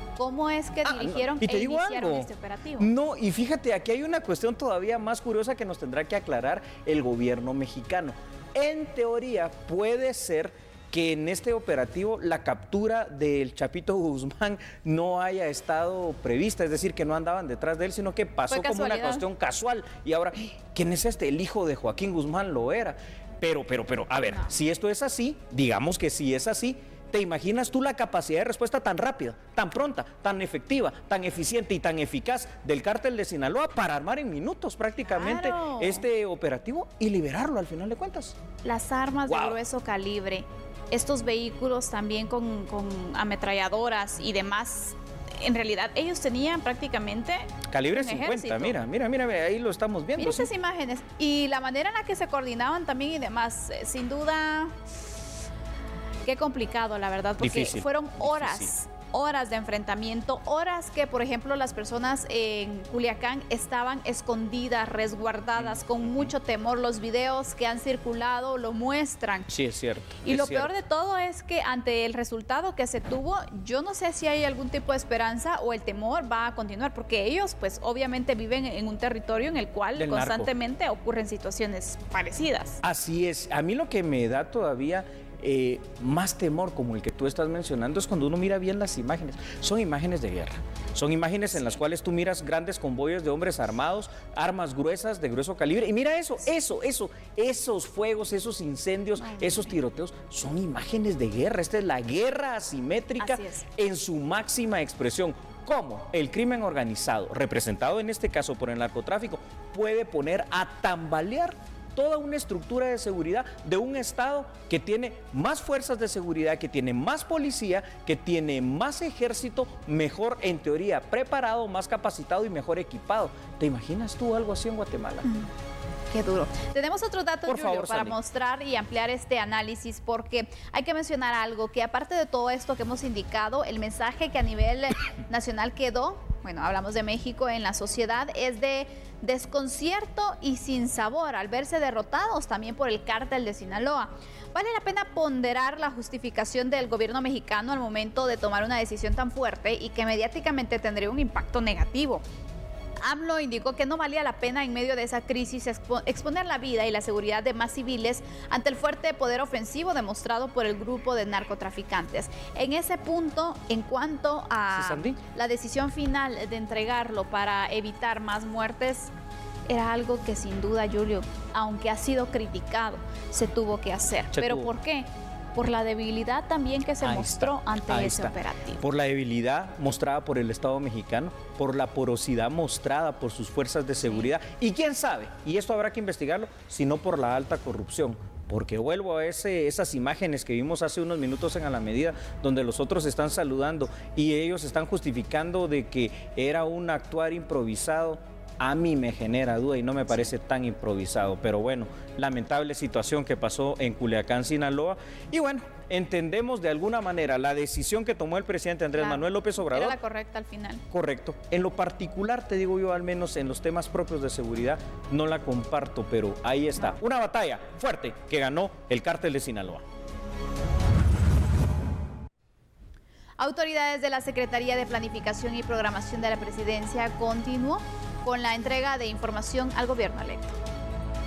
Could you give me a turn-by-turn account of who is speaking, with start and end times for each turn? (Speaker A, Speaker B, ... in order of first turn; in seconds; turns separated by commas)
Speaker A: 0.2-2.9, Speaker B: 0.8-2.3, Speaker B: 2.8-38.4, Speaker A: 18.5-19.2, Speaker A: 24.2-24.5, Speaker A: 35.1-36.0, Speaker A: 38.6-48.8, Speaker B: 39.3-39.5, Speaker B: 47.7-50.5, Speaker A: 50.2-54.8, Speaker A: 56.2-69.5, Speaker B: 57.4-58.7, Speaker B: 65.6-66.3, Speaker B: 69.5-70.7, Speaker A: 70.2-82.8, Speaker B: 80.0-80.5, Speaker B: 82.8-125.3, Speaker A: 91.5-91.8, Speaker A: 99.2-99.8, Speaker A: 103.2-103.7, Speaker A: 125.2-125.5, Speaker A: 126.1-152.2, Speaker B: 127.5-128.2, Speaker A: 153.0-169.1, Speaker B: 164.7-165.2, Speaker A: 169.7-178.8, Speaker B: 174.3-174.7, Speaker B: 177.0-209.9, Speaker A: 184.0-184.3, Speaker A: 208.9-210.8, Speaker B: 210.9-219.8, Speaker A: 223.4-230.6